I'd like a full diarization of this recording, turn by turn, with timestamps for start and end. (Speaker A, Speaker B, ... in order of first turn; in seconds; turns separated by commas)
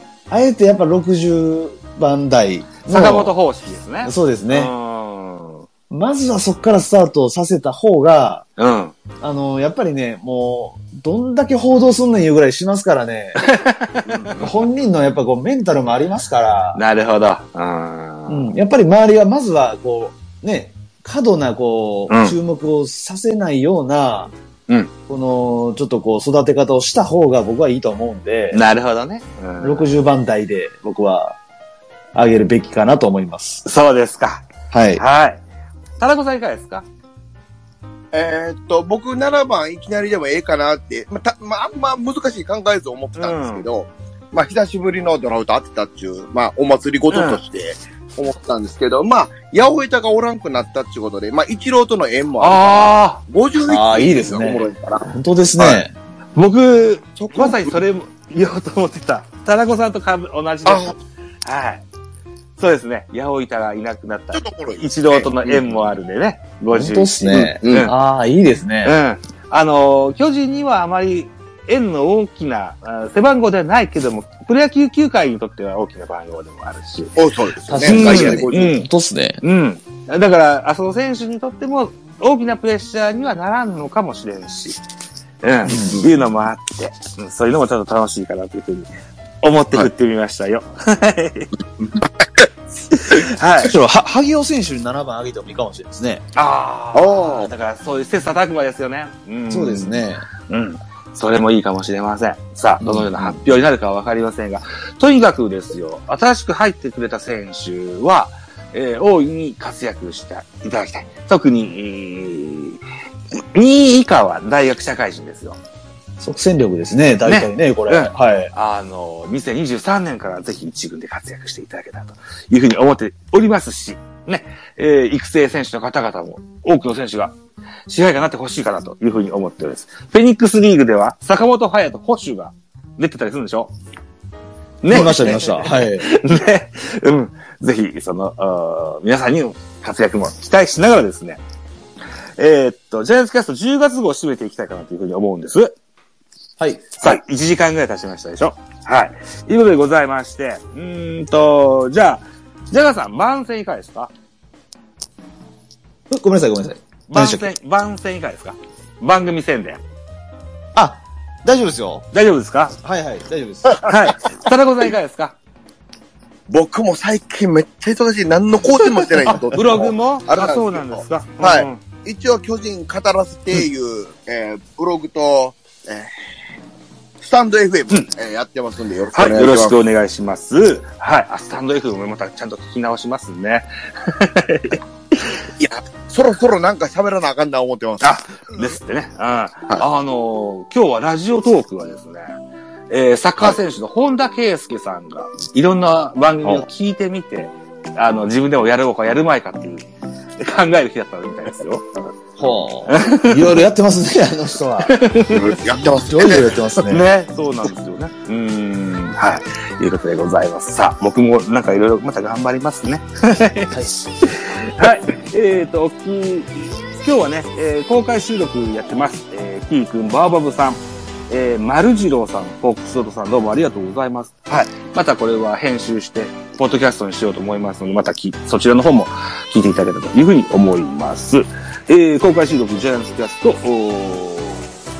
Speaker A: 0.3-3.3, Speaker B: 2.9-5.7, Speaker A: 4.0-4.7, Speaker A: 5.9-8.5, Speaker B: 8.6-8.9, Speaker A: 9.2-13.5, Speaker B: 13.4-14.5, Speaker A: 14.2-16.8, Speaker B: 16.7-18.5, Speaker A: 18.3-24.3, Speaker B: 22.1-22.4, Speaker A: 25.1-28.6, Speaker B: 28.5-29.9, Speaker A: 29.6-31.4, Speaker A: 32.1-33.6, Speaker B: 33.6-35.4, Speaker A: 34.7-35.0, Speaker B: 36.0-36.9, Speaker C: 38.1-55.8, Speaker B: 43.1-43.6, Speaker B: 47.1-47.4, Speaker B: 52.4-53.2, Speaker A: 53.6-55.9, Speaker B: 56.4-61.8, Speaker C: 57.2-57.8, Speaker C: 60.6-60.9, Speaker B: 62.6-67.9, Speaker C: 64.3-65.7, Speaker A: 66.7-69.0, Speaker C: 67.3-67.9, Speaker B: 68.8-77.2, Speaker C: 77.2-78.7, Speaker A: 77.7-79.4, Speaker B: 77.8-78.9, Speaker B: 79.4-84.8, Speaker B: 85.4-91.5, Speaker A: 85.7-86.1, Speaker B: 92.9-93.7, Speaker A: 93.6-96.2, Speaker B: 96.3-112.8, Speaker C: 96.9-97.5, Speaker A: 99.5-100.2, Speaker A: 102.8-103.6, Speaker B: 113.4-115.6, Speaker A: 116.2-118.5, Speaker B: 117.2-127.3, Speaker B: 127.9-133.7, Speaker B: 134.8-141.4, Speaker A: 134.9-136.1, Speaker B: 142.4-145.8, Speaker A: 146.6-147.2, Speaker B: 147.0-154.1, Speaker A: 156.1-157.4, Speaker B: 157.1-159.8, Speaker A: 160.7-162.1, Speaker B: 162.1-162.8, Speaker A: 162.8-163.8, Speaker B: 163.8-165.3, Speaker C: 166.5-176.1, Speaker B: 169.3-171.8, Speaker C: 177.2-179.8, Speaker B: 179.1-185.4, Speaker C: 185.6-188.6, Speaker B: 188.0-192.4, Speaker B: 192.9-199.8, Speaker B: 200.4-201.9, Speaker A: 202.4-205.0, Speaker B: 202.9-203.5, Speaker B: 204.8-205.6, Speaker C: 205.3-206.6, Speaker A: 205.8-207.1, Speaker B: 206.8-234.7